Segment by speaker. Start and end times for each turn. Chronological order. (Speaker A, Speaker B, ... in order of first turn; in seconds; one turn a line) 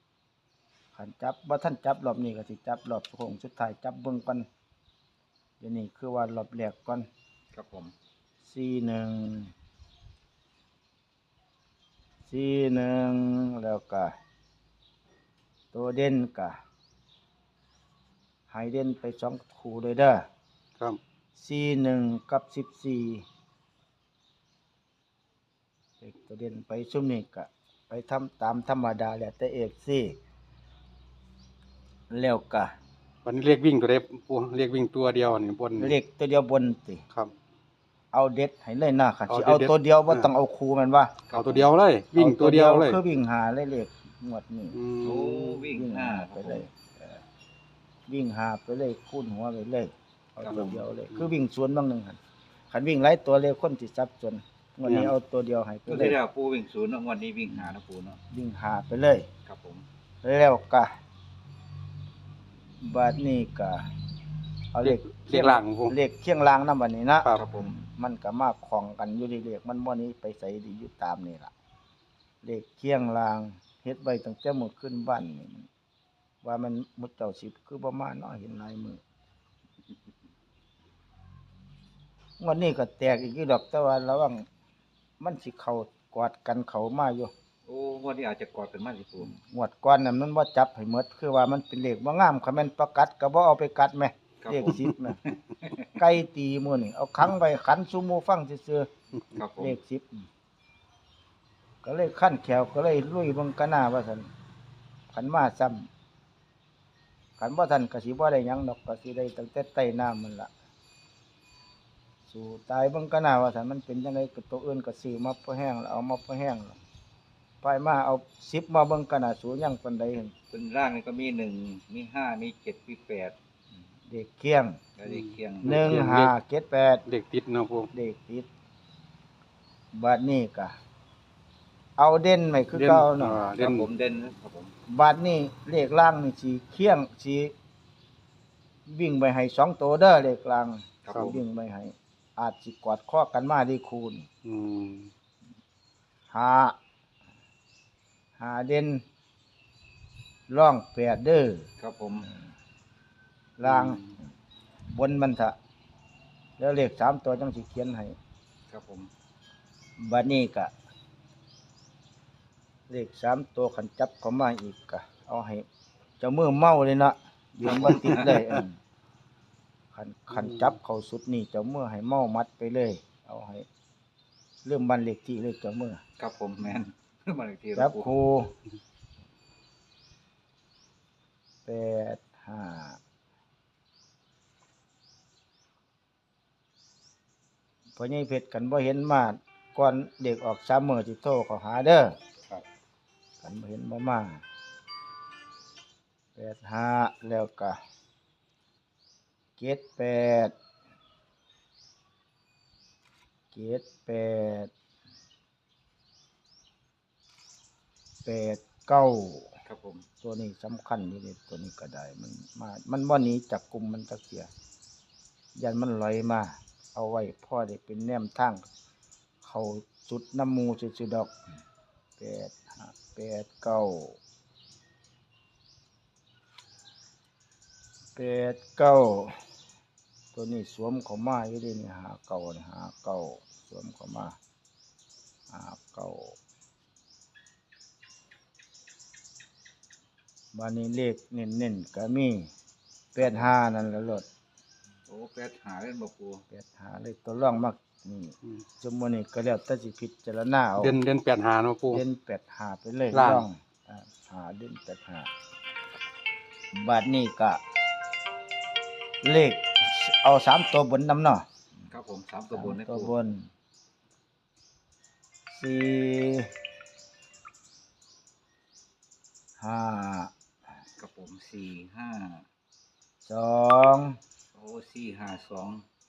Speaker A: 0.9-4.5
Speaker A: 5.6-7.1
Speaker B: 7.5-7.9
Speaker A: 8.4-9.5
Speaker A: 12.3-14.1
Speaker A: 15.7-16.6
Speaker A: 18.5-20.2
Speaker A: 21.4-23.2
Speaker A: 26.0-30.2
Speaker A: 32.1-32.7
Speaker C: 33.2-36.0
Speaker A: 35.8-37.0
Speaker A: 38.1-41.1
Speaker C: 39.3-40.3
Speaker B: 41.3-41.7
Speaker C: 41.3-43.0
Speaker A: 42.1-44.8
Speaker C: 44.7-45.6
Speaker B: 45.0-46.7
Speaker A: 45.7-47.2
Speaker A: 48.1-52.2
Speaker B: 50.4-50.9
Speaker A: 52.7-56.2
Speaker C: 54.9-55.1
Speaker B: 55.9-58.2
Speaker A: 58.3-59.3
Speaker B: 59.5-59.9
Speaker A: 60.2-60.9
Speaker A: 62.8-63.9
Speaker A: 64.7-71.5
Speaker C: 64.8-66.0
Speaker B: 67.3-67.8
Speaker A: 72.4-75.7
Speaker A: 76.4-79.0
Speaker A: 82.4-84.5
Speaker A: 85.2-87.3
Speaker B: 87.7-89.3
Speaker A: 89.2-95.2
Speaker B: 94.4-95.9
Speaker A: 96.0-98.9
Speaker B: 99.3-99.8
Speaker A: 99.6-100.3
Speaker A: 101.8-104.3
Speaker A: 105.1-105.9
Speaker A: 107.4-110.5
Speaker A: 112.3-116.8
Speaker A: 117.6-120.3
Speaker B: 120.5-123.3
Speaker A: 124.0-124.8
Speaker B: 125.0-126.1
Speaker C: 125.1-126.3
Speaker A: 125.6-127.0
Speaker C: 127.1-127.9
Speaker A: 127.9-128.5
Speaker A: 129.9-130.8
Speaker A: 132.0-133.4
Speaker C: 132.7-133.9
Speaker B: 133.6-134.7
Speaker A: 134.9-137.5
Speaker A: 138.9-144.3
Speaker B: 141.1-141.4
Speaker C: 141.1-141.4
Speaker C: 144.4-145.1
Speaker A: 146.3-146.8
Speaker A: 148.4-149.0
Speaker A: 150.5-151.7
Speaker B: 151.8-152.3
Speaker A: 153.6-154.0
Speaker C: 153.6-154.1
Speaker A: 154.9-155.6
Speaker A: 156.6-158.2
Speaker B: 158.7-159.1
Speaker A: 160.0-160.7
Speaker A: 162.9-165.7
Speaker A: 166.2-168.8
Speaker B: 167.7-168.3
Speaker A: 169.9-173.7
Speaker C: 170.3-170.7
Speaker A: 174.6-176.0
Speaker B: 176.2-178.1
Speaker A: 177.8-178.5
Speaker A: 181.7-183.0
Speaker A: 188.0-192.2
Speaker A: 193.4-194.4
Speaker A: 196.4-197.8
Speaker A: 199.6-200.5
Speaker A: 203.5-204.7
Speaker A: 208.2-209.5
Speaker B: 209.7-210.1
Speaker A: 210.2-214.5
Speaker A: 215.6-218.7
Speaker A: 219.4-221.3
Speaker A: 222.2-224.2
Speaker A: 228.2-229.4
Speaker A: 230.3-234.4
Speaker A: 235.5-236.4
Speaker A: 240.5-242.5
Speaker A: 243.2-244.3
Speaker B: 243.2-243.5
Speaker B: 245.1-246.4
Speaker A: 246.5-250.9
Speaker C: 250.8-252.0
Speaker A: 251.9-255.3
Speaker C: 253.1-253.4
Speaker A: 256.7-257.6
Speaker A: 259.2-261.5
Speaker B: 261.9-263.1
Speaker A: 262.5-263.5
Speaker A: 265.5-266.5
Speaker A: 269.6-270.3
Speaker B: 271.0-272.4
Speaker A: 273.2-274.2
Speaker B: 274.5-275.8